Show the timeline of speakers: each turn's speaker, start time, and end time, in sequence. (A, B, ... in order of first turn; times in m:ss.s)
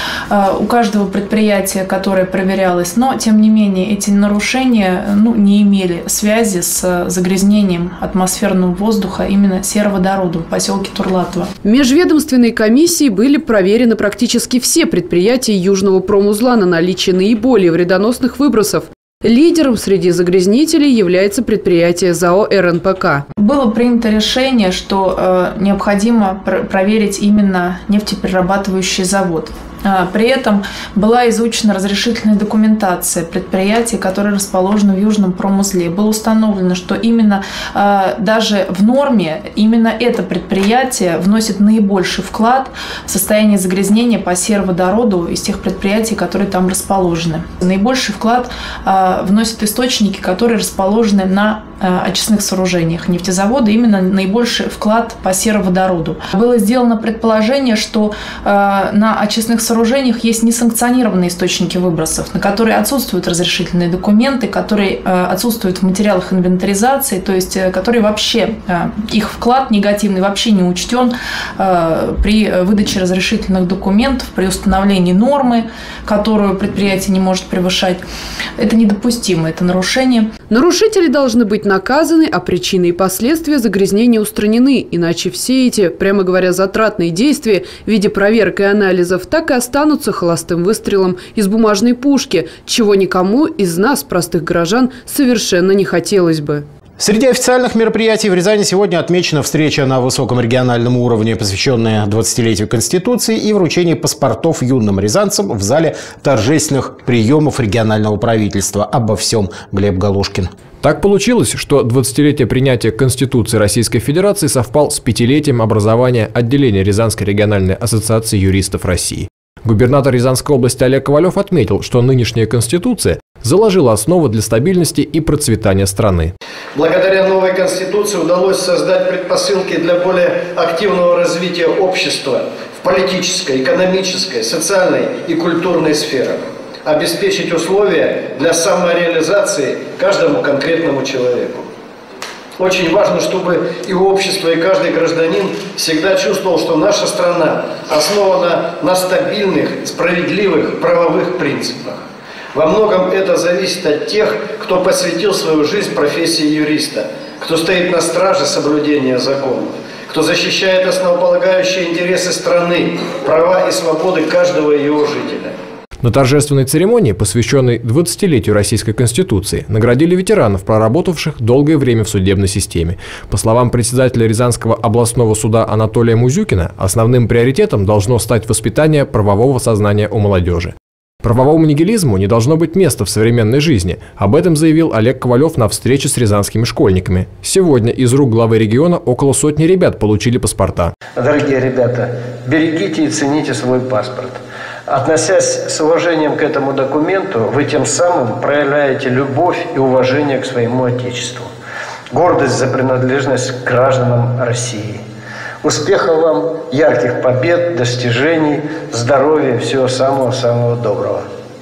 0:00.3-0:11.5 A
0:11.6-0:23.2 B
0:23.4-1:18.0 A
1:18.6-1:20.3 A
1:20.5-1:36.6 B
1:37.0-1:50.5 C
1:50.8-2:06.3 D
2:06.7-2:21.7 E
2:22.6-2:32.0 E
2:32.5-2:45.5 E
2:46.0-3:10.9 D
3:11.2-3:21.5 E
3:22.1-3:25.0 E
3:25.6-3:31.2 E